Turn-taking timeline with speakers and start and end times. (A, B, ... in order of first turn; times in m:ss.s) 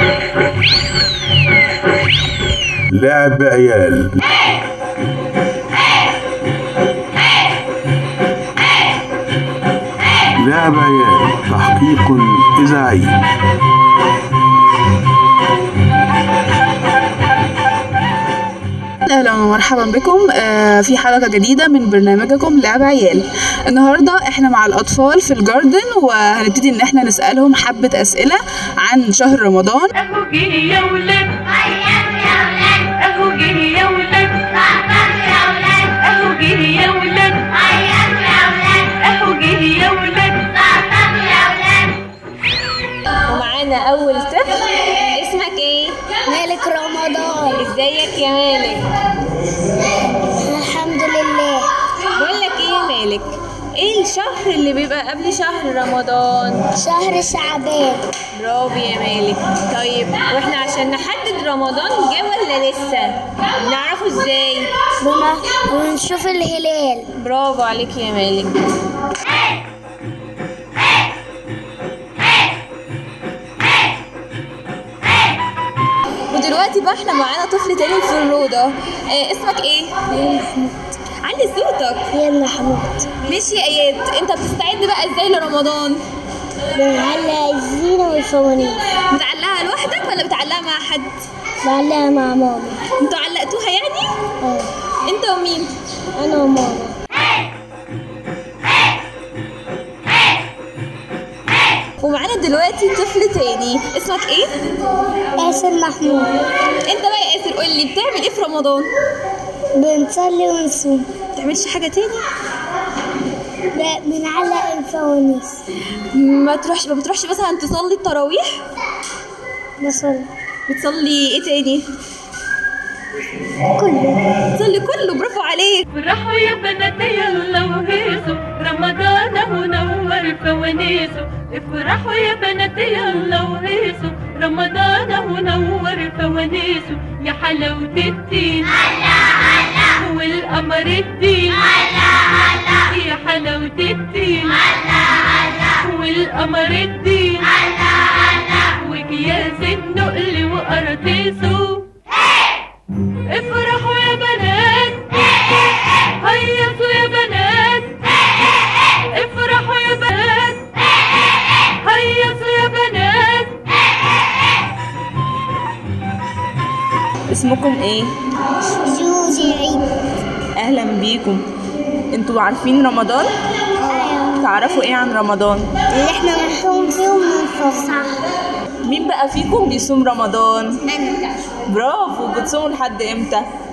0:03.0-0:04.1 A
0:10.4-0:13.2 A
0:19.0-0:29.9 B
0:30.0-0:31.5 C
0:32.3-0:38.1 C
0:39.0-0:40.5 C
0:43.3-0:44.6 D
0:45.1-0:46.0 D
0:46.3-0:47.6 E
0:47.6-0:48.8 D
0:50.4-0:51.6 E
0:52.2-0:56.6 D
0:56.8-0:58.0 E
0:58.3-1:04.7 D
1:05.0-1:07.1 E
1:07.2-1:08.5 D
1:16.3-1:20.2 D
1:20.2-1:20.7 E
1:21.2-1:22.1 D
1:22.1-1:23.0 E
1:23.2-1:26.0 D
1:26.7-1:28.8 E
1:29.1-1:31.1 D
1:31.6-1:32.8 E
1:33.0-1:34.1 D
1:35.0-1:35.7 D
1:36.2-1:36.9 E
1:42.0-1:44.5 D
1:45.4-1:46.3 E
1:46.8-1:48.9 D
1:49.8-1:51.1 E
1:51.3-1:52.3 D
1:53.7-1:55.6 E
1:56.1-1:58.6 D
1:59.8-2:00.2 E
2:00.7-2:01.8 D
2:03.7-2:04.3 E
2:04.5-2:05.8 D
2:05.9-2:18.9 C
2:19.8-2:21.9 C
2:22.8-2:25.0 C
2:25.6-2:27.6 C
2:28.5-2:31.9 C
2:33.3-2:38.1 C
2:39.1-2:40.7 C
2:41.8-2:43.6 C
2:47.3-2:48.1 F
2:48.8-2:49.8 E
2:50.6-2:51.4 F
2:52.1-2:53.3 F
2:53.8-2:54.5 E
2:54.4-2:55.7 F
2:55.9-2:58.2 E
2:58.8-3:00.8 F
3:00.9-3:01.2 E
3:01.7-3:03.4 F